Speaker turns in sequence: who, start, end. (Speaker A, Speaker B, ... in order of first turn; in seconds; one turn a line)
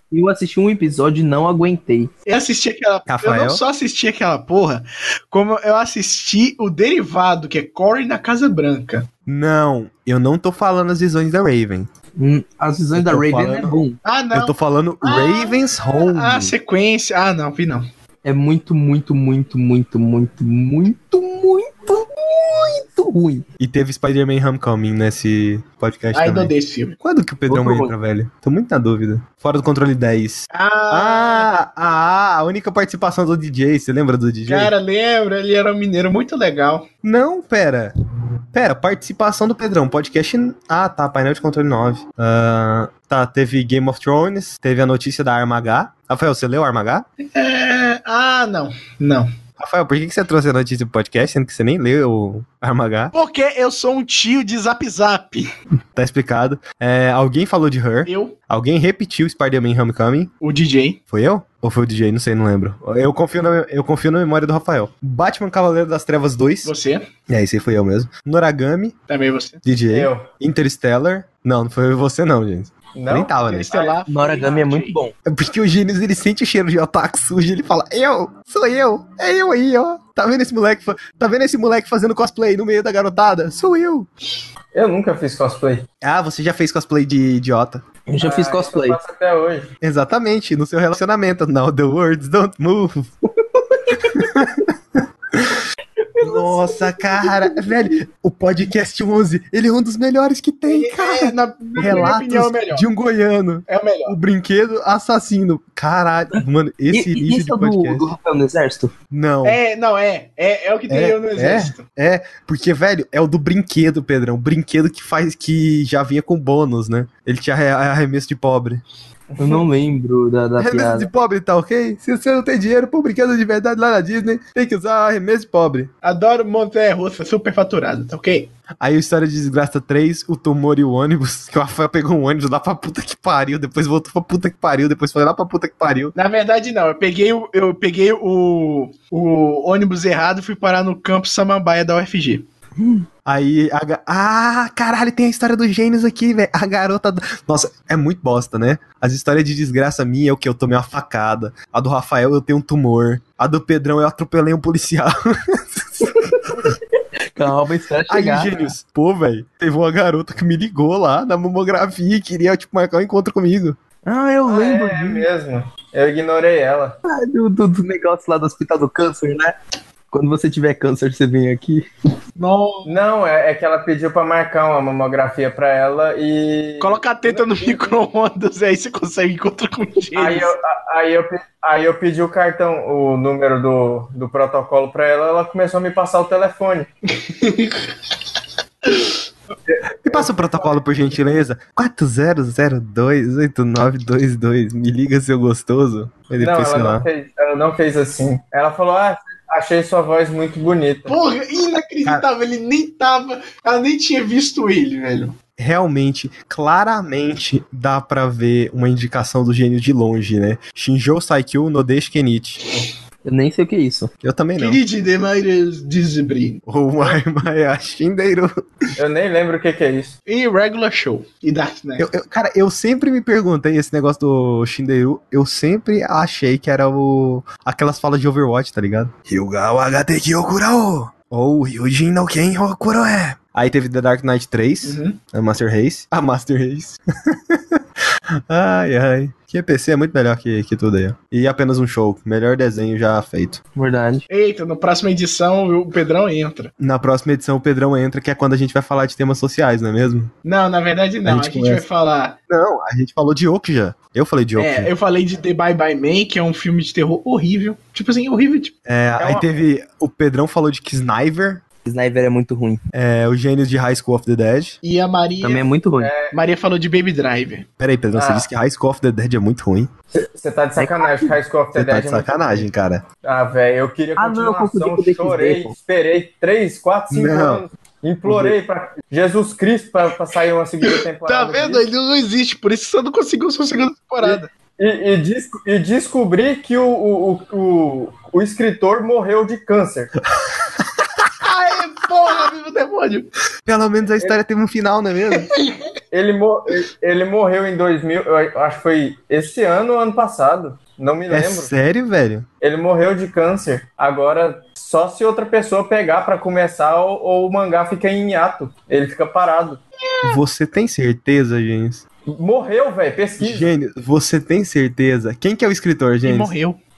Speaker A: 0.1-2.1
Speaker B: 2.3-9.1
Speaker C: 3.1-3.6
Speaker C: 9.3-11.9
Speaker A: 12.2-14.0
Speaker C: 12.9-13.8
Speaker B: 14.1-17.9
Speaker C: 14.3-16.6
Speaker A: 18.2-23.4
Speaker C: 23.6-34.7
Speaker B: 26.1-27.0
Speaker A: 27.5-27.9
Speaker B: 30.5-31.5
Speaker B: 34.5-36.9
Speaker C: 37.0-37.9
Speaker C: 38.5-47.1
Speaker B: 47.3-49.3
Speaker C: 49.6-53.1
Speaker B: 53.1-55.5
Speaker C: 56.0-60.3
Speaker B: 58.1-58.3
Speaker B: 60.4-61.0
Speaker C: 61.1-66.7
Speaker B: 66.6-67.0
Speaker C: 67.3-68.9
Speaker B: 69.1-69.6
Speaker C: 69.6-73.7
Speaker D: 69.9-70.2
Speaker D: 73.0-73.9
Speaker B: 73.4-75.0
Speaker A: 74.1-75.1
Speaker C: 75.2-84.1
Speaker D: 84.7-85.9
Speaker C: 86.0-87.8
Speaker A: 88.1-89.0
Speaker D: 88.2-89.7
Speaker C: 89.8-93.1
Speaker C: 94.2-95.6
Speaker A: 96.2-97.3
Speaker C: 96.2-108.1
Speaker B: 100.7-102.8
Speaker A: 101.8-102.1
Speaker B: 103.7-104.2
Speaker A: 106.9-108.9
Speaker C: 109.1-109.6
Speaker B: 109.4-111.8
Speaker C: 110.9-118.8
Speaker D: 119.3-119.6
Speaker A: 119.4-121.1
Speaker C: 120.6-125.9
Speaker B: 126.0-128.5
Speaker C: 128.8-136.2
Speaker B: 136.2-142.4
Speaker A: 142.8-143.1
Speaker C: 143.3-156.2
Speaker A: 157.4-158.6
Speaker C: 158.1-163.8
Speaker A: 164.1-165.3
Speaker D: 164.5-167.0
Speaker A: 167.1-169.6
Speaker A: 170.1-171.9
Speaker B: 172.4-172.9
Speaker D: 172.9-177.8
Speaker B: 176.8-180.5
Speaker D: 180.2-186.9
Speaker B: 187.4-187.8
Speaker D: 189.7-190.8
Speaker C: 190.0-197.1
Speaker D: 196.4-201.2
Speaker B: 201.1-205.4
Speaker C: 205.6-212.6
Speaker A: 213.2-214.1
Speaker C: 214.2-214.8
Speaker B: 214.6-216.6
Speaker C: 216.7-218.5
Speaker D: 219.0-220.2
Speaker B: 220.3-222.1
Speaker C: 222.0-237.8
Speaker B: 234.8-235.2
Speaker C: 238.5-243.6
Speaker A: 243.8-244.2
Speaker B: 244.3-246.7
Speaker C: 246.8-250.3
Speaker B: 250.4-252.4
Speaker C: 251.2-251.9
Speaker C: 252.5-254.9
Speaker B: 254.6-258.7
Speaker C: 258.9-261.6
Speaker D: 259.2-259.5
Speaker A: 261.9-262.8
Speaker C: 262.9-264.8
Speaker B: 264.8-265.7
Speaker A: 265.4-266.1
Speaker D: 266.0-266.4
Speaker B: 266.3-267.6
Speaker C: 267.8-269.9
Speaker D: 268.1-268.5
Speaker D: 270.3-272.7
Speaker A: 270.8-271.4
Speaker C: 271.8-273.0
Speaker D: 273.2-281.8
Speaker A: 274.2-275.7
Speaker C: 277.1-277.6
Speaker C: 278.2-278.6
Speaker B: 280.9-284.5
Speaker D: 284.2-290.1
Speaker B: 291.4-293.3
Speaker C: 293.7-295.5
Speaker D: 296.1-301.7
Speaker C: 301.3-302.5
Speaker D: 302.6-309.8
Speaker C: 310.2-312.0
Speaker D: 312.3-313.7
Speaker C: 313.4-316.5
Speaker B: 316.2-316.8